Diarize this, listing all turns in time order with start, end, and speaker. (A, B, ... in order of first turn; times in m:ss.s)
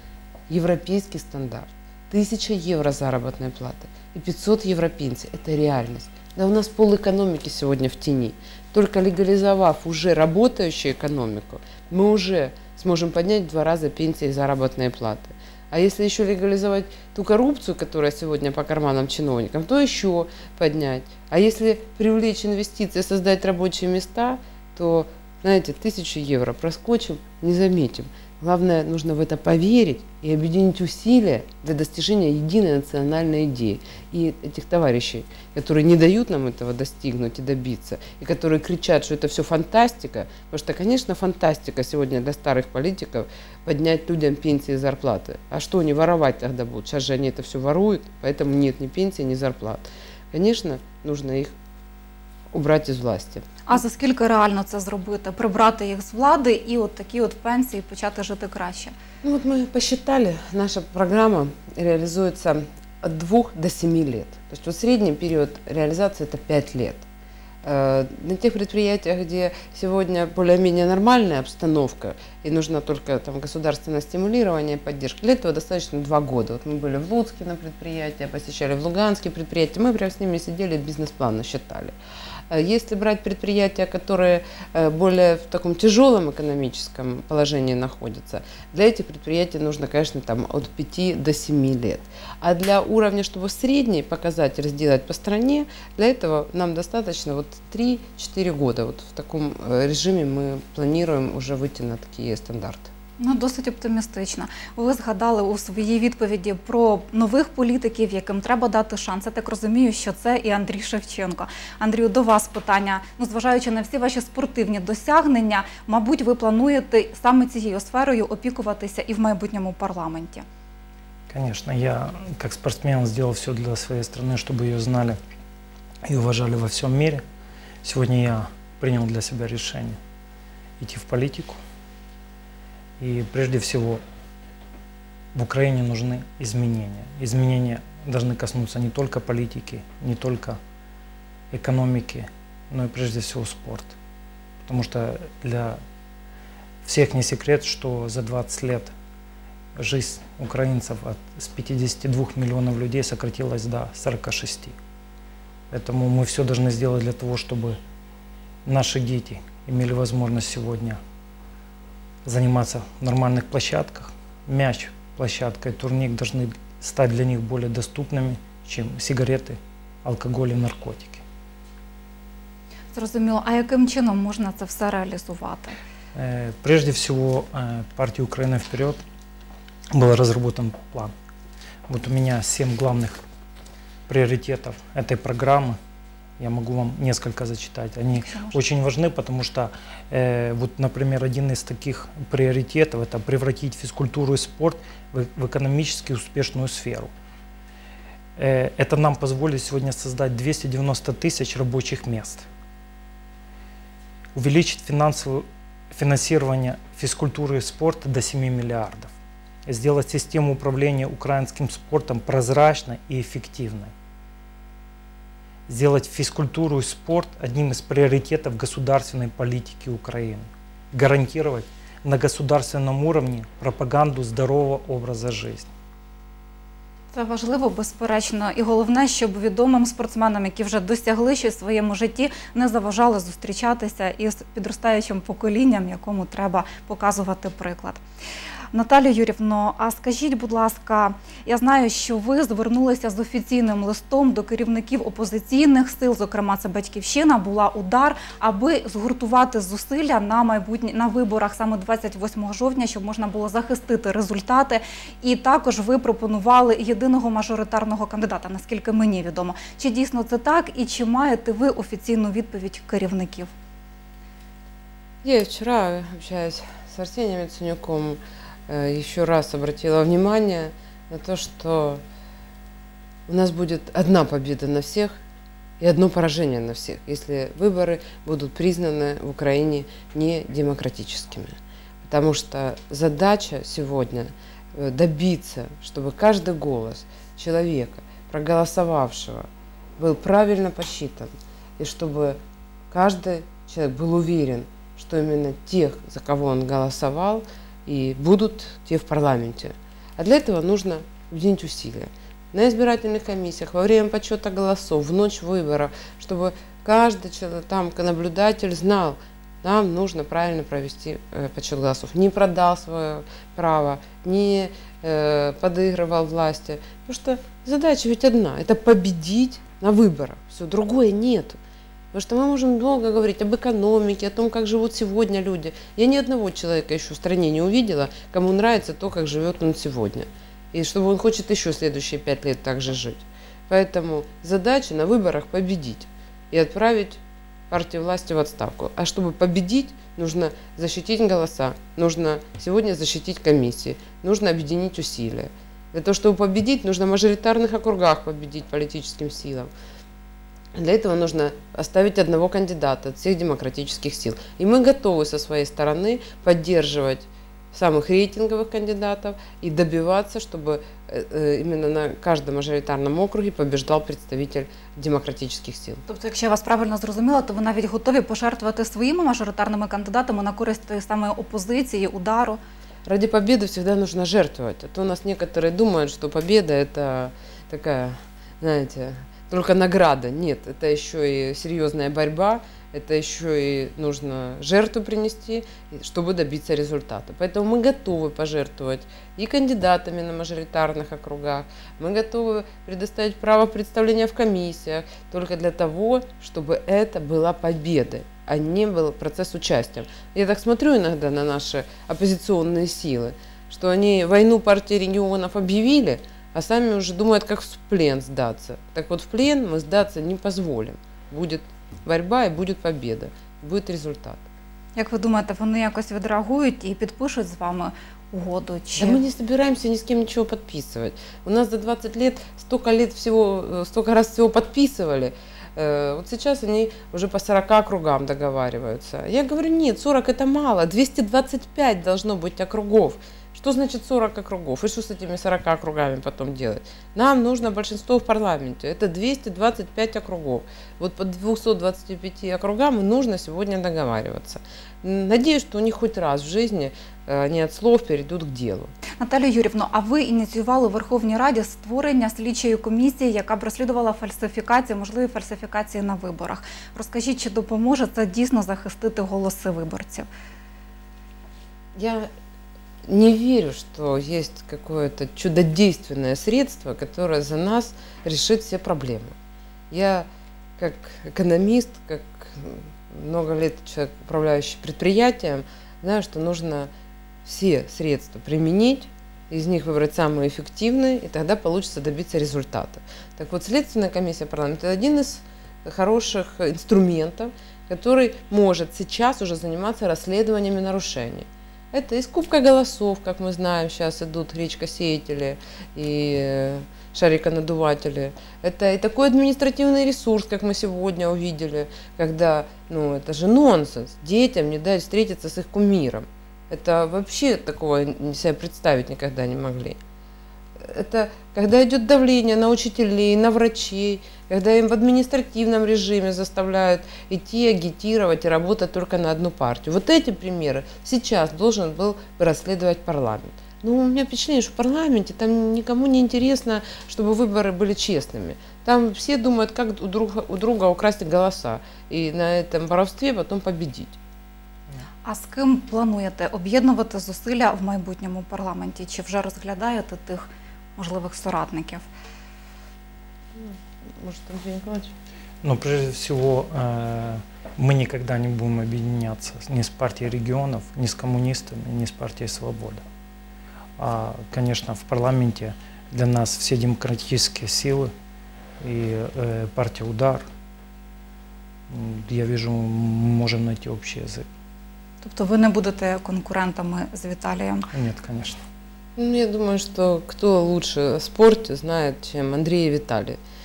0:00.5-0:51.5 A
0:52.5-0:53.6 A
0:53.7-0:59.0 B
0:59.2-1:07.0 A
1:07.6-1:22.0 A
1:22.5-1:42.9 A
1:43.2-2:00.4 B
2:01.3-2:05.2 C
2:06.0-2:07.2 C
2:07.8-2:10.0 C
2:10.8-2:11.6 C
2:13.0-2:14.0 C
2:15.3-2:20.6 C
2:21.5-2:24.0 C
2:24.6-2:25.8 C
2:26.8-2:28.9 C
2:29.8-2:34.8 C
2:35.7-2:37.8 C
2:38.6-2:41.0 C
2:42.2-2:51.2 C
2:52.9-2:55.8 B
2:56.1-2:59.0 C
2:59.9-3:01.1 C
3:01.9-3:03.2 C
3:04.1-3:05.8 C
3:06.4-3:17.1 C
3:08.1-3:08.6 B
3:18.4-3:22.5 C
3:24.4-3:29.1 C
3:29.6-3:33.9 C
3:35.7-3:45.7 C
3:47.1-3:58.0 B
3:58.7-4:23.5 B
4:25.2-4:32.0 A
4:33.3-4:35.1 A
4:35.8-4:52.4 A
4:52.9-5:21.6 A
5:22.1-5:49.7 A
5:50.7-6:06.0 A
6:06.1-6:12.6 B
6:13.0-6:54.4 A
6:55.0-6:59.2 B
6:59.0-7:28.9 A
7:29.2-7:40.3 B
7:42.0-7:42.3 A
7:43.1-7:49.4 A
7:49.9-7:50.3 A
7:50.8-7:56.9 A
7:57.4-8:30.0 A
8:30.8-8:54.2 A
8:55.2-9:02.0 B
9:03.6-9:05.2 A
9:05.6-9:13.0 C
9:14.0-9:18.1 C
9:18.8-9:20.4 C
9:21.9-9:24.5 C
9:25.2-9:27.9 B
9:27.9-9:28.6 C
9:29.2-9:33.4 A